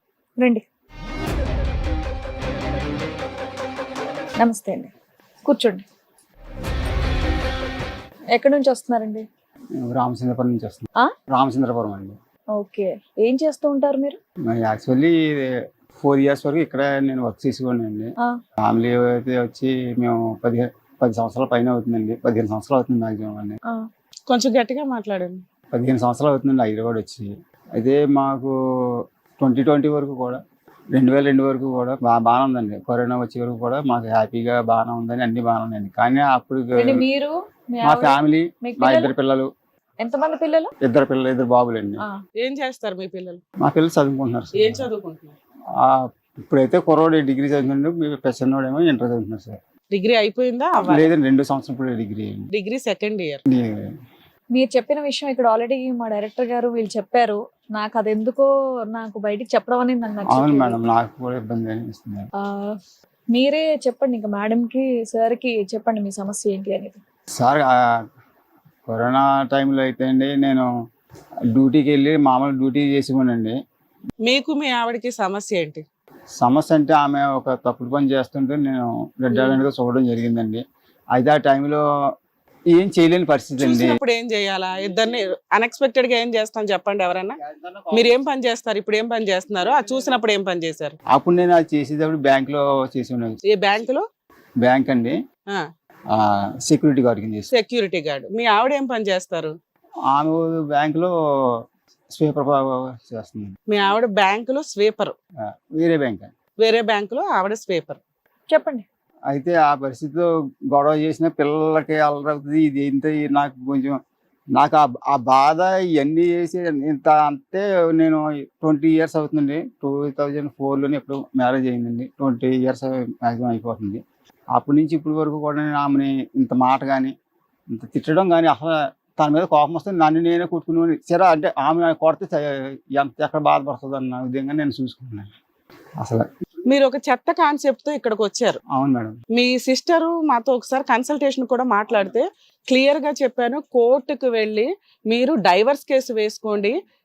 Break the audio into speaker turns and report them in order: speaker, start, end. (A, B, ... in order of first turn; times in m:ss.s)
0:00.4-0:00.6 A
0:04.4-0:04.9 A
0:05.4-0:05.8 A
0:08.3-0:09.2 A
0:09.8-0:12.1 B
0:12.6-0:14.2 A
0:14.5-0:18.1 B
0:18.6-0:23.6 B
0:24.3-0:25.4 C
0:25.7-0:28.5 B
0:29.4-0:30.4 B
0:30.9-0:37.0 B
0:36.8-0:39.1 A
0:37.8-0:39.5 B
0:40.0-0:40.7 A
0:40.8-0:42.0 B
0:42.4-0:43.4 C
0:43.6-0:44.9 B
0:44.6-0:45.3 C
0:45.8-0:49.6 B
0:49.9-0:51.1 C
0:50.9-0:52.5 B
0:52.5-0:53.4 C
0:53.5-0:53.9 B
0:54.6-1:00.8 A
1:00.3-1:02.3 B
1:03.3-1:07.0 A
1:07.4-1:07.7 B
1:08.9-1:10.7 B
1:11.5-1:13.6 B
1:14.2-1:15.8 C
1:16.4-1:20.6 B
1:21.1-1:21.8 B
1:22.7-1:24.0 B
1:23.6-1:27.4 C
1:27.4-1:28.1 B
1:27.9-1:31.0 C
1:31.1-1:33.4 B
1:33.5-1:34.0 C
1:34.6-1:35.2 B
1:36.1-1:37.5 B
1:37.5-1:39.5 C
1:40.1-1:41.1 B
1:42.1-1:43.6 B
1:43.7-1:45.1 C
1:45.5-1:46.3 B
1:46.6-1:48.0 C
1:48.5-1:48.8 A
1:49.3-1:54.0 B
1:54.6-2:04.0 B
2:04.5-2:07.1 B
2:07.7-2:15.3 B
2:16.0-2:16.2 B
2:16.7-2:18.6 C
2:18.7-2:19.2 B
2:19.3-2:26.8 C